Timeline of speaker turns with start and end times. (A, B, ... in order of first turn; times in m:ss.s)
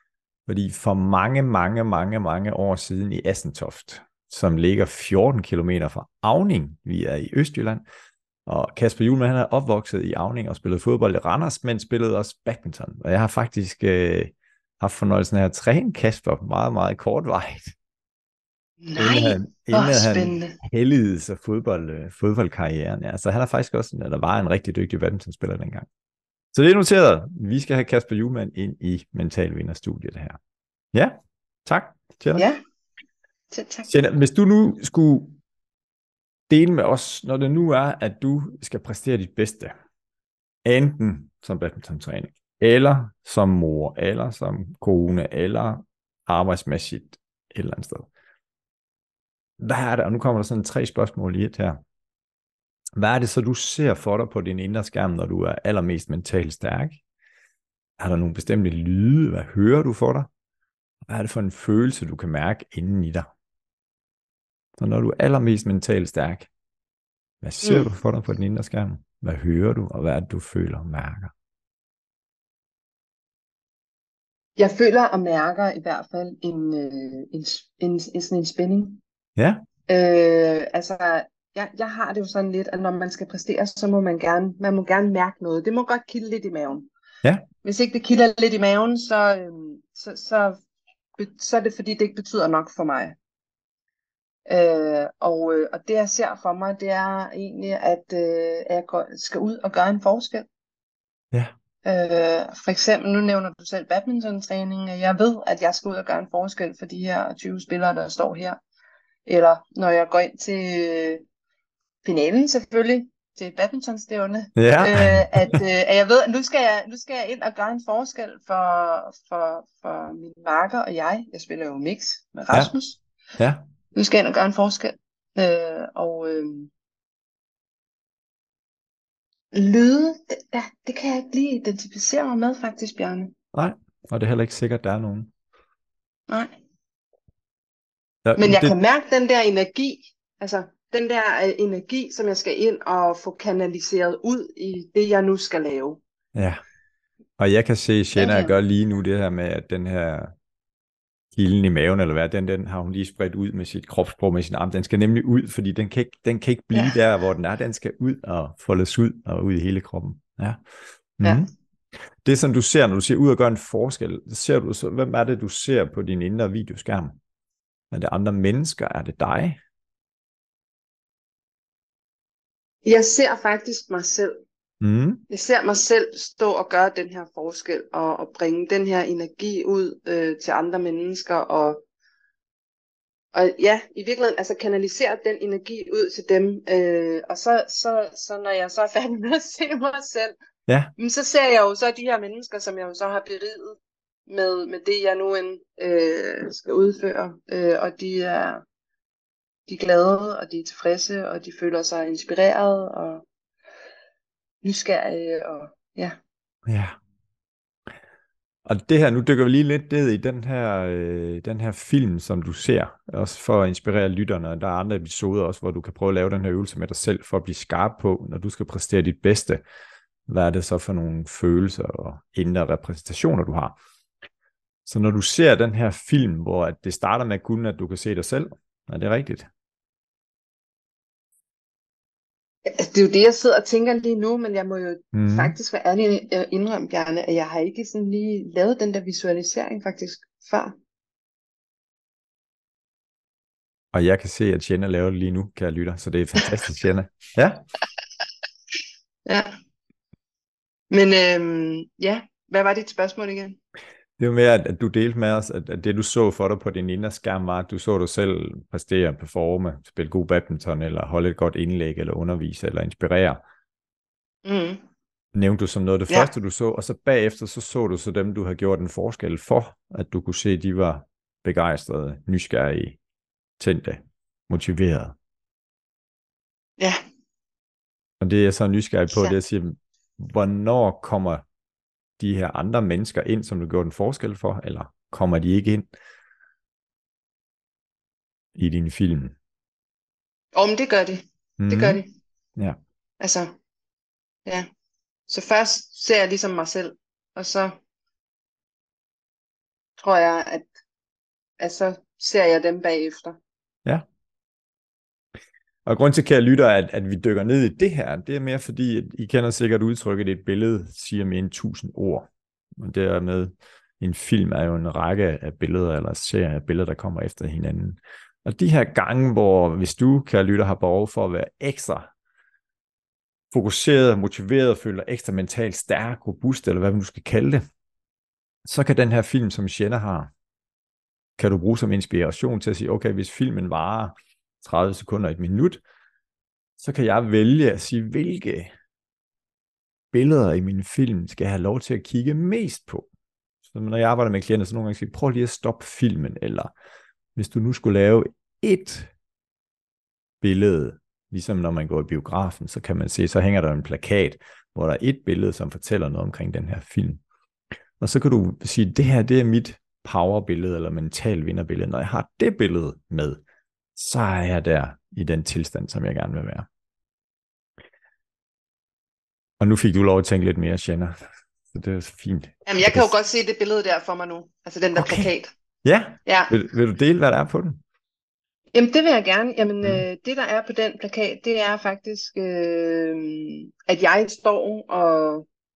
0:00.5-0:07.8 A
0:08.5-0:17.8 A
0:18.8-0:20.6 B
0:19.0-0:25.9 A
0:26.5-0:30.4 A
0:30.9-0:32.5 A
0:33.5-0:33.9 B
0:33.9-0:35.4 A
0:36.5-0:39.7 A
0:40.6-0:48.1 A
0:49.6-0:51.8 A
0:53.0-0:57.0 A
0:58.0-1:00.3 A
1:01.1-1:03.3 A
1:04.8-1:06.5 A
1:07.4-1:11.3 A
1:07.6-1:07.9 B
1:14.6-1:19.0 B
1:19.4-1:19.6 A
1:19.9-1:26.9 B
1:27.6-1:30.6 B
1:31.2-1:33.2 B
1:34.5-1:40.5 B
1:41.8-1:48.6 B
1:49.3-1:51.2 B
1:52.0-2:03.0 B
1:54.6-1:55.6 A
2:03.4-2:03.6 A
2:03.9-2:06.7 B
2:09.5-2:13.3 B
2:13.5-2:15.3 A
2:18.2-2:18.8 A
2:18.4-2:26.0 B
2:26.4-2:26.6 A
2:27.4-2:30.3 A
2:28.2-2:28.5 B
2:31.3-2:40.6 A
2:41.2-2:41.5 A
2:42.2-2:47.2 A
2:47.9-2:49.6 A
2:52.8-2:54.4 B
2:54.8-2:55.2 A
2:55.3-3:01.8 B
3:03.3-3:10.4 B
3:10.7-3:10.9 A
3:11.0-3:18.6 B
3:19.7-3:23.2 B
3:24.6-3:26.2 B
3:26.7-3:27.0 A
3:28.6-3:39.6 A
3:40.3-3:43.8 A
3:44.9-3:49.5 A
3:52.7-4:00.7 B
3:55.1-3:55.6 A
4:03.9-4:07.6 A
4:10.9-4:13.6 B
4:14.2-4:23.4 A
4:24.4-4:24.8 B
4:25.4-4:33.0 A
4:33.6-4:35.2 A
4:38.2-4:41.4 A
4:42.2-4:45.9 A
4:48.6-4:49.4 A
4:50.5-4:52.1 B
4:51.6-4:52.0 A
4:53.2-4:53.5 B
4:55.3-4:57.8 B
5:00.0-5:00.7 B
5:01.6-5:03.4 B
5:05.9-5:22.1 A
5:23.5-5:27.6 A
5:28.6-5:30.3 A
5:31.4-5:35.8 A
5:36.8-5:38.7 A
5:40.1-5:43.1 A
5:43.7-5:46.7 A
5:47.4-5:49.1 A
5:50.4-5:57.2 A
5:58.0-6:03.4 A
6:04.0-6:06.7 A
6:09.6-6:11.2 A
6:11.7-6:13.1 A
6:12.7-6:15.5 B
6:15.0-6:15.3 A
6:15.8-6:17.8 A
6:16.3-6:16.5 B
6:18.7-6:25.4 B